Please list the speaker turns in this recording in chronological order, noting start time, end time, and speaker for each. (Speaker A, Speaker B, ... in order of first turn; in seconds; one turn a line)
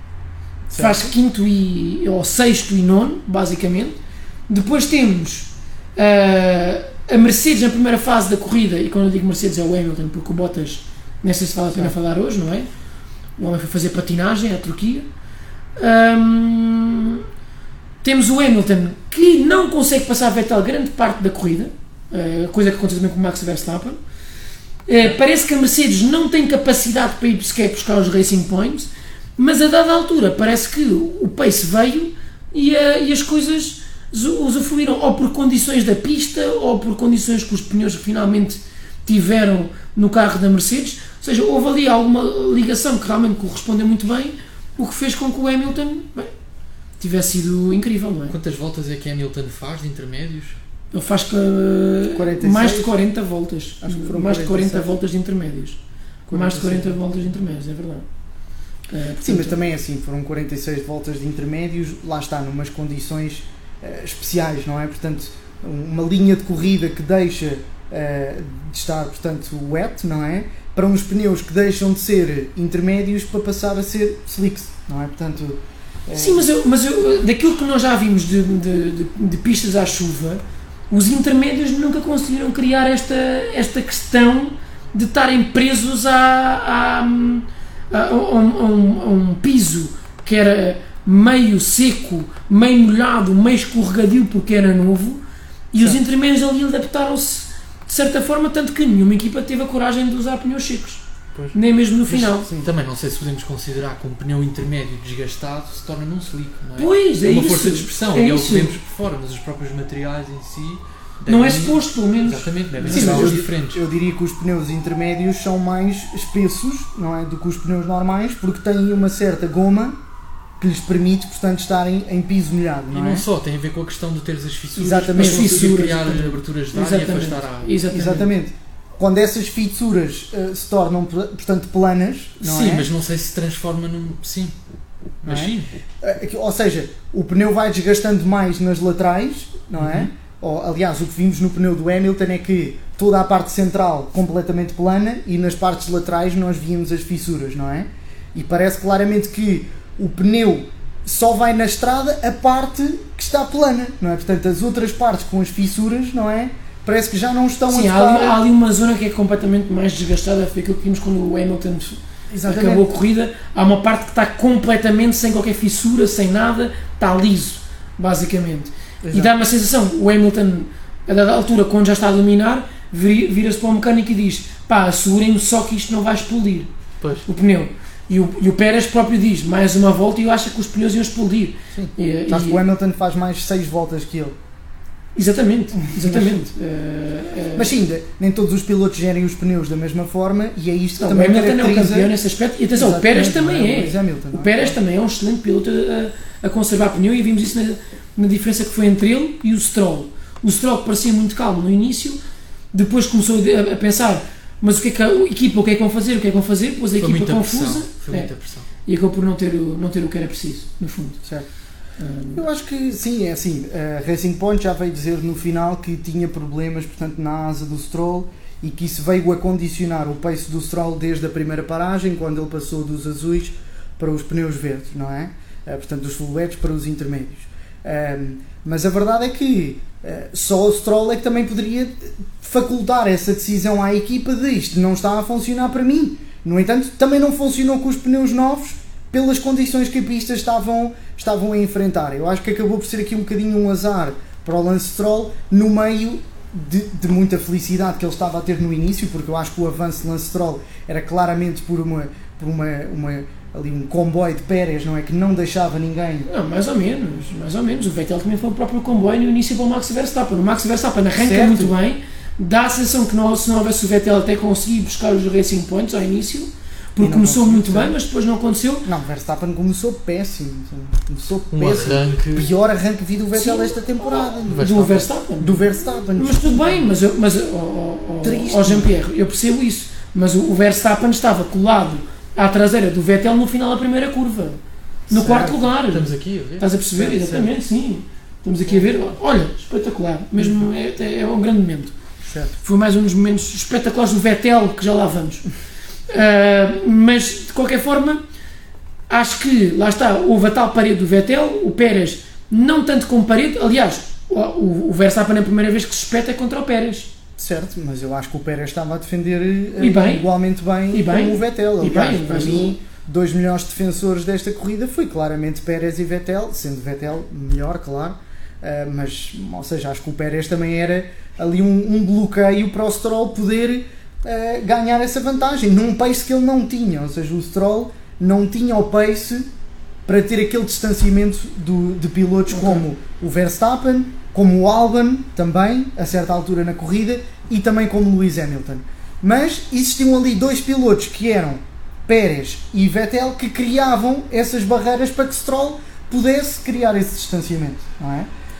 Speaker A: 0.7-1.1
Speaker B: 0.7-4.0
Speaker B: 4.5-12.7
Speaker B: 13.4-15.1
Speaker B: 15.8-17.2
Speaker B: 18.0-24.0
Speaker B: 24.9-46.3
Speaker B: 47.0-48.4
Speaker C: 48.3-50.6
Speaker B: 50.9-55.8
Speaker A: 52.1-52.9
Speaker A: 53.8-54.9
Speaker A: 56.3-57.0
Speaker B: 56.3-58.0
Speaker B: 58.9-59.6
Speaker A: 59.2-76.5
Speaker B: 76.1-95.2
Speaker B: 95.7-101.0
Speaker B: 101.5-102.5
Speaker C: 102.1-113.8
Speaker B: 106.8-108.7
Speaker B: 111.3-113.4
Speaker A: 112.9-120.0
Speaker A: 120.6-123.2
Speaker C: 122.9-127.8
Speaker A: 124.8-125.8
Speaker B: 124.8-128.3
Speaker A: 127.9-132.9
Speaker C: 132.4-134.5
Speaker C: 135.2-135.7
Speaker A: 135.2-158.4
Speaker C: 139.8-140.1
Speaker B: 157.7-176.7
Speaker A: 162.3-162.8
Speaker A: 169.0-169.3
Speaker C: 177.0-177.2
Speaker B: 177.2-182.6
Speaker A: 181.7-184.3
Speaker B: 185.2-187.8
Speaker A: 185.8-186.4
Speaker A: 187.6-192.1
Speaker B: 191.0-202.2
Speaker A: 192.7-194.8
Speaker B: 202.7-208.3
Speaker C: 207.0-208.7
Speaker B: 208.8-211.2
Speaker B: 212.0-212.4
Speaker A: 212.3-256.3
Speaker B: 256.3-268.9
Speaker A: 261.2-261.7
Speaker A: 267.0-267.9
Speaker A: 268.8-274.7
Speaker C: 271.5-272.5
Speaker B: 273.3-273.8
Speaker C: 274.5-275.1
Speaker B: 274.5-291.9
Speaker A: 275.4-276.9
Speaker A: 278.2-278.9
Speaker A: 285.1-285.6
Speaker C: 285.8-286.7
Speaker A: 287.0-287.4
Speaker A: 292.2-292.5
Speaker B: 292.6-295.5
Speaker B: 296.1-298.2
Speaker B: 299.1-307.1
Speaker A: 307.4-329.4
Speaker B: 309.8-310.3
Speaker B: 310.9-312.8
Speaker A: 330.1-348.3
Speaker B: 332.5-332.9